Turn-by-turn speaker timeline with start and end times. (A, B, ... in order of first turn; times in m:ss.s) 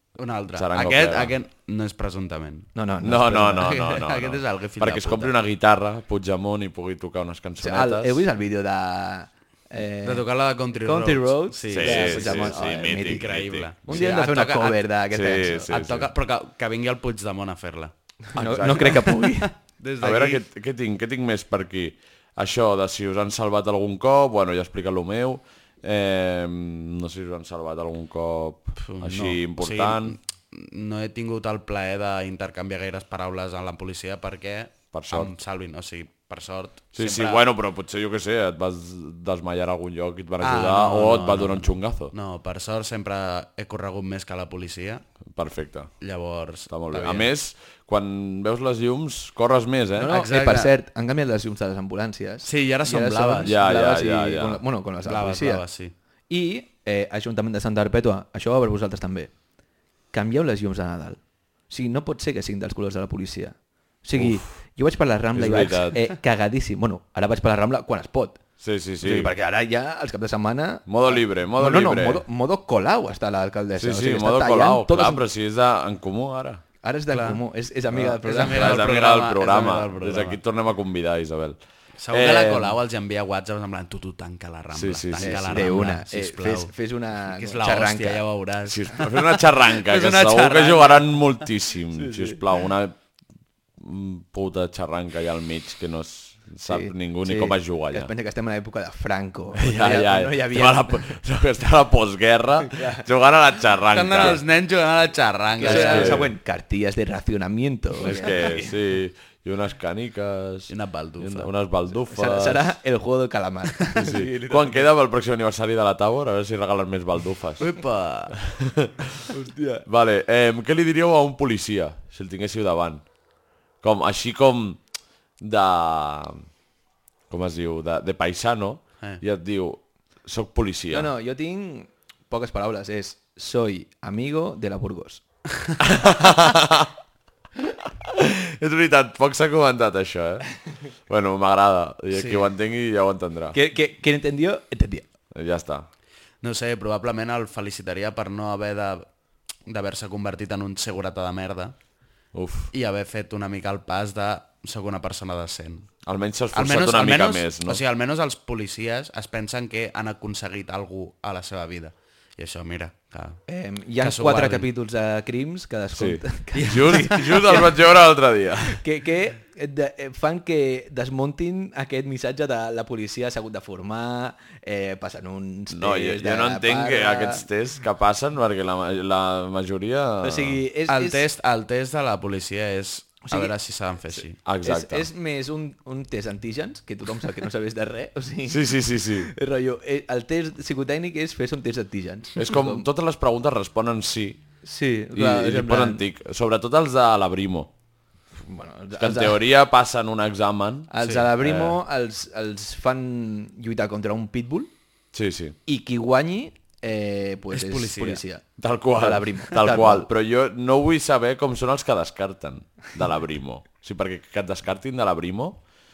0:00.2-0:02.7 A
0:00.5-0:01.4 B
0:02.8-0:03.7 C
0:03.0-0:08.2 B
0:03.6-0:05.3 A
0:07.6-0:10.3 C
0:10.0-0:14.9 A
0:10.8-0:13.3 C
0:11.7-0:14.1 B
0:13.9-0:15.7 C
0:15.1-0:16.1 B
0:15.7-0:20.4 A
0:18.3-0:19.5 C
0:18.4-0:19.1 B
0:20.0-0:30.2 B
0:28.8-0:37.4 A
0:34.9-0:35.3 B
0:37.0-0:42.1 B
0:40.4-0:45.0 A
0:45.3-0:45.9 B
0:46.0-0:47.3 A
0:46.7-0:50.1 B
0:50.0-0:55.6 C
0:50.1-0:50.7 A
0:52.4-0:53.5 A
0:53.4-0:54.6 B
0:55.0-0:55.9 A
0:56.3-0:59.3 C
1:00.1-1:08.4 C
1:04.2-1:04.5 B
1:05.4-1:06.0 B
1:08.6-1:09.3 B
1:09.0-1:15.2 C
1:10.9-1:12.2 B
1:13.8-1:16.6 B
1:16.8-1:18.9 C
1:17.1-1:17.4 A
1:17.9-1:21.6 B
1:18.2-1:20.4 A
1:22.0-1:31.2 A
1:22.1-1:22.8 B
1:24.7-1:25.8 B
1:25.2-1:28.2 C
1:28.6-1:33.0 B
1:32.0-1:32.4 C
1:33.8-1:38.1 B
1:36.7-1:41.1 C
1:39.6-1:44.4 B
1:42.6-1:43.0 C
1:43.9-1:46.2 A
1:45.6-1:48.7 C
1:45.6-1:46.3 B
1:48.0-1:52.7 B
1:50.7-1:51.5 A
1:52.1-1:54.8 C
1:53.9-1:57.7 B
1:57.6-1:58.4 A
1:58.5-1:59.3 B
1:59.3-1:59.8 C
1:59.9-2:03.0 B
2:03.8-2:04.8 B
2:05.4-2:06.4 B
2:07.3-2:11.1 B
2:10.9-2:15.2 C
2:15.8-2:16.9 B
2:17.8-2:20.5 B
2:21.1-2:23.6 B
2:22.1-2:22.5 A
2:23.5-2:25.0 C
2:25.3-2:25.9 B
2:26.4-2:29.1 A
2:29.7-2:31.8 A
2:32.3-2:32.7 B
2:32.7-2:35.9 A
2:36.0-2:37.8 B
2:36.5-2:43.4 A
2:43.5-2:47.7 C
2:44.0-2:44.7 A
2:46.0-2:48.8 B
2:46.6-2:47.4 A
2:48.8-2:57.4 C
2:55.7-3:00.6 B
3:00.2-3:01.2 C
3:00.9-3:04.4 A
3:03.3-3:03.5 C
3:04.1-3:12.9 C
3:04.4-3:05.1 B
3:08.5-3:09.3 B
3:12.4-3:14.4 B
3:14.6-3:16.0 C
3:15.1-3:17.7 B
3:18.4-3:19.4 C
3:19.0-3:21.8 B
3:20.9-3:24.7 C
3:25.1-3:25.6 B
3:25.7-3:28.4 C
3:27.5-3:28.2 A
3:28.6-3:35.6 B
3:29.0-3:30.1 C